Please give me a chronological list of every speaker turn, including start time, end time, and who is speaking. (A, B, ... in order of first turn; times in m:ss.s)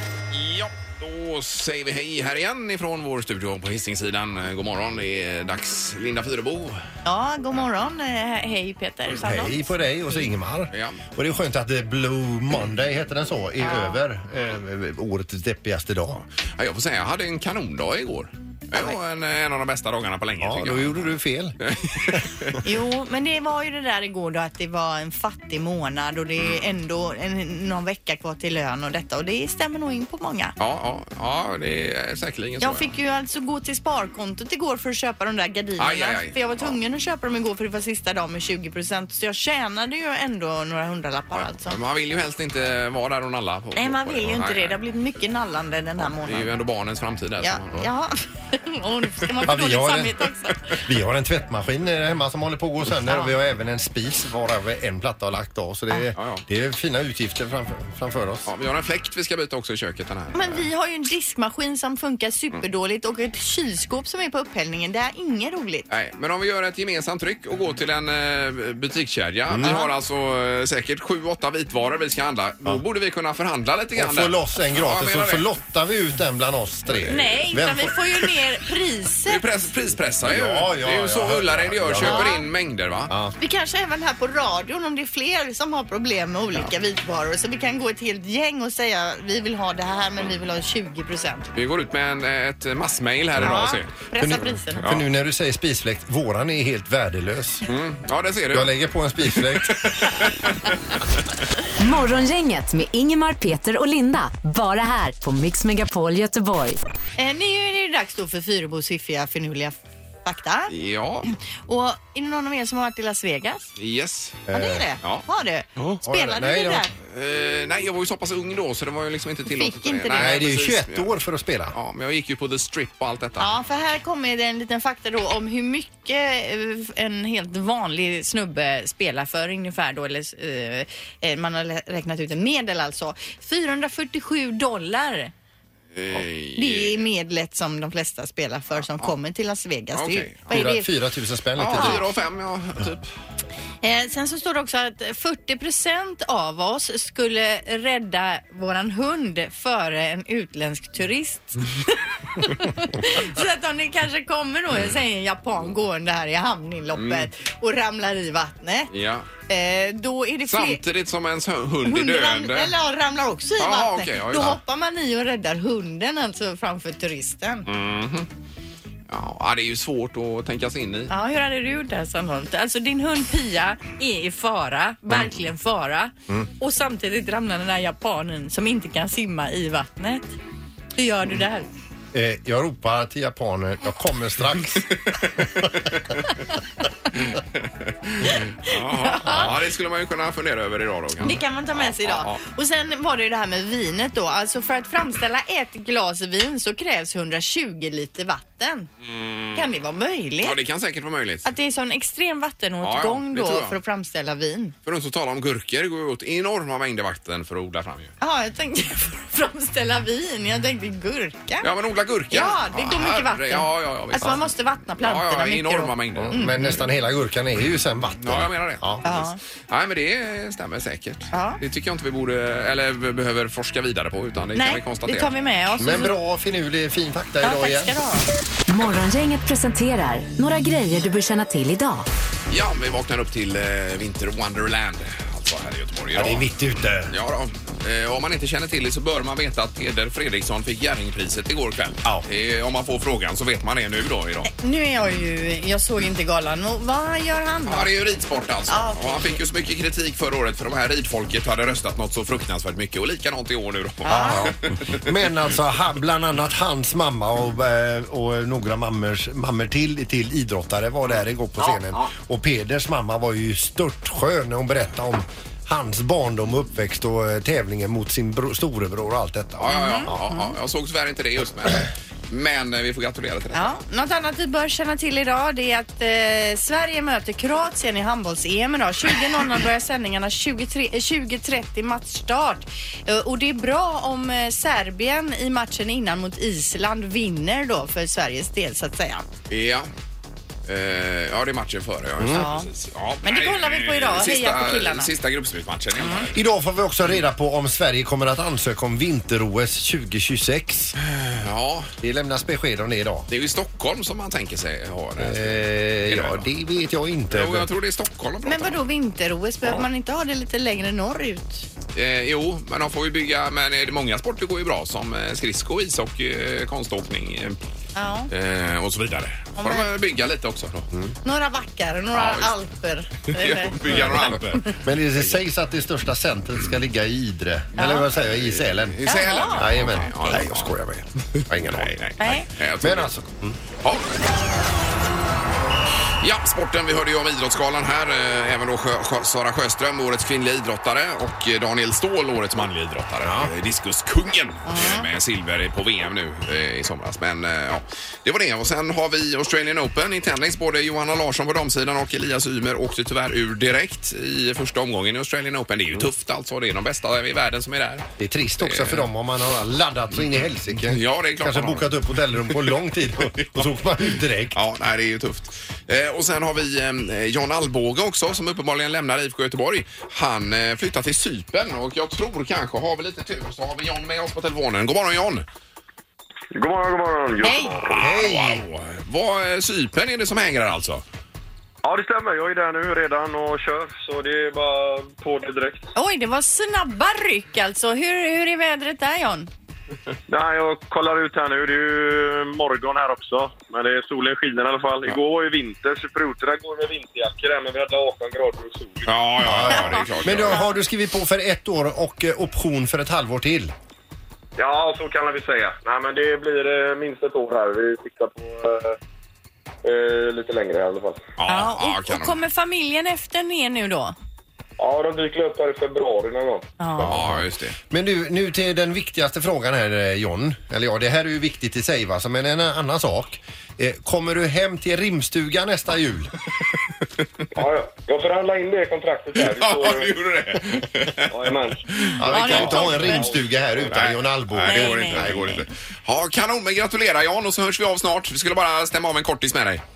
0:00.3-0:06.8 A
0:07.0-0:09.7 B
0:09.2-0:16.2 C
0:10.7-0:11.0 A
0:13.6-0:14.0 B
0:16.1-0:22.6 A
0:20.4-0:21.6 C
0:22.6-0:30.5 B
0:30.6-0:32.9 A
0:32.6-0:41.8 B
0:35.8-0:36.8 A
0:41.3-0:44.8 A
0:43.7-0:46.5 B
0:46.1-0:47.9 A
0:47.4-0:50.8 B
0:49.4-0:50.2 C
0:50.8-0:58.5 C
0:53.0-0:53.3 B
0:56.1-0:56.4 A
0:58.4-1:00.7 A
1:00.3-1:05.9 B
1:05.9-1:15.5 A
1:09.5-1:09.8 C
1:09.6-1:09.9 B
1:14.0-1:17.9 C
1:16.9-1:19.4 B
1:19.3-1:23.1 A
1:20.2-1:22.3 C
1:22.0-1:22.4 B
1:23.1-1:23.3 C
1:23.4-1:31.5 B
1:31.5-1:33.9 A
1:33.4-1:34.8 B
1:34.2-1:37.6 C
1:37.6-1:38.7 A
1:38.5-1:40.2 C
1:39.4-1:40.7 A
1:41.8-1:46.8 D
1:47.2-1:50.7 B
1:50.7-1:51.3 A
1:51.3-1:53.7 B
1:53.8-1:54.4 A
1:54.5-1:54.9 C
1:54.5-1:56.9 B
1:55.8-1:56.8 C
1:57.0-2:01.1 A
1:59.5-2:00.4 B
2:00.1-2:01.7 C
2:01.7-2:03.6 A
2:03.4-2:15.3 B
2:15.9-2:17.0 A
2:16.6-2:20.9 B
2:19.9-2:20.7 A
2:20.5-2:22.0 C
2:21.6-2:23.1 A
2:21.7-2:22.0 B
2:23.8-2:38.9 B
2:36.9-2:37.3 A
2:38.9-2:39.3 A
2:39.5-2:40.8 B
2:40.5-2:42.7 A
2:41.8-2:47.7 B
2:43.6-2:44.6 A
2:47.6-2:48.3 A
2:49.1-2:51.1 A
2:51.1-3:00.4 B
3:01.0-3:01.7 B
3:02.1-3:04.8 C
3:07.2-3:12.4 A
3:08.2-3:09.5 B
3:11.2-3:18.9 B
3:19.0-3:19.6 A
3:19.5-3:20.6 B
3:20.4-3:21.5 A
3:21.4-3:24.7 B
3:22.8-3:23.8 A
3:24.8-3:28.1 A
3:28.2-3:31.6 B
3:31.6-3:36.8 A
3:32.3-3:36.5 B
3:36.2-3:39.0 C
3:38.2-3:45.3 A
3:39.0-3:39.4 B
3:41.3-3:41.6 B
3:44.5-3:46.1 B
3:45.8-3:47.9 C
3:47.4-3:48.3 B
3:48.7-3:52.1 D
3:52.5-3:56.5 A
3:56.1-3:57.0 C
3:57.1-4:04.5 A
4:04.4-4:07.9 B
4:07.6-4:15.0 A
4:08.7-4:09.4 B
4:14.0-4:14.5 B
4:14.1-4:30.1 C
4:21.6-4:22.0 A
4:29.6-4:33.8 A
4:29.7-4:30.4 B
4:33.5-4:49.2 B
4:49.5-4:49.9 A
4:50.6-4:56.4 A
4:52.3-4:52.7 B
4:53.2-4:55.1 B
4:56.3-5:00.9 C
5:01.0-5:01.9 A
5:02.0-5:03.3 C
5:03.3-5:06.5 A
5:05.2-5:07.7 C
5:07.3-5:08.8 A
5:08.4-5:11.7 B
5:11.9-5:17.6 A
5:18.0-5:18.3 B
5:18.3-5:20.9 A
5:19.6-5:19.9 B
5:21.2-5:24.7 B
5:22.1-5:22.5 A
5:23.3-5:24.8 A
5:23.9-5:31.9 C
5:27.8-5:28.1 B
5:28.2-5:33.1 A
5:29.0-5:29.6 B
5:32.2-5:32.4 B
5:32.8-5:33.6 C
5:33.8-5:34.2 A
5:36.2-5:58.1 A
5:43.2-5:43.5 C
5:44.6-5:45.1 B
5:58.2-6:04.6 C
5:58.6-5:59.1 A
6:00.1-6:01.9 A
6:03.3-6:03.6 A
6:04.5-6:15.4 A
6:16.5-6:18.0 E
6:17.4-6:17.8 B
6:17.9-6:18.6 C
6:18.0-6:21.0 A
6:21.8-6:25.9 E
6:25.9-6:29.5 B
6:30.3-6:39.1 E
6:39.0-6:40.6 A
6:39.4-6:43.7 C
6:39.7-6:40.7 B
6:44.6-6:49.0 E
6:49.8-6:51.2 E
6:51.4-6:52.4 A
6:51.4-6:54.1 B
6:54.8-6:56.7 E
6:56.8-6:57.2 B
6:57.0-7:06.3 C
6:57.0-6:57.8 A
7:07.5-7:10.1 E
7:09.4-7:13.0 A
7:11.3-7:14.0 E
7:12.2-7:15.6 C
7:12.3-7:13.4 B
7:13.9-7:19.8 A
7:14.6-7:15.6 B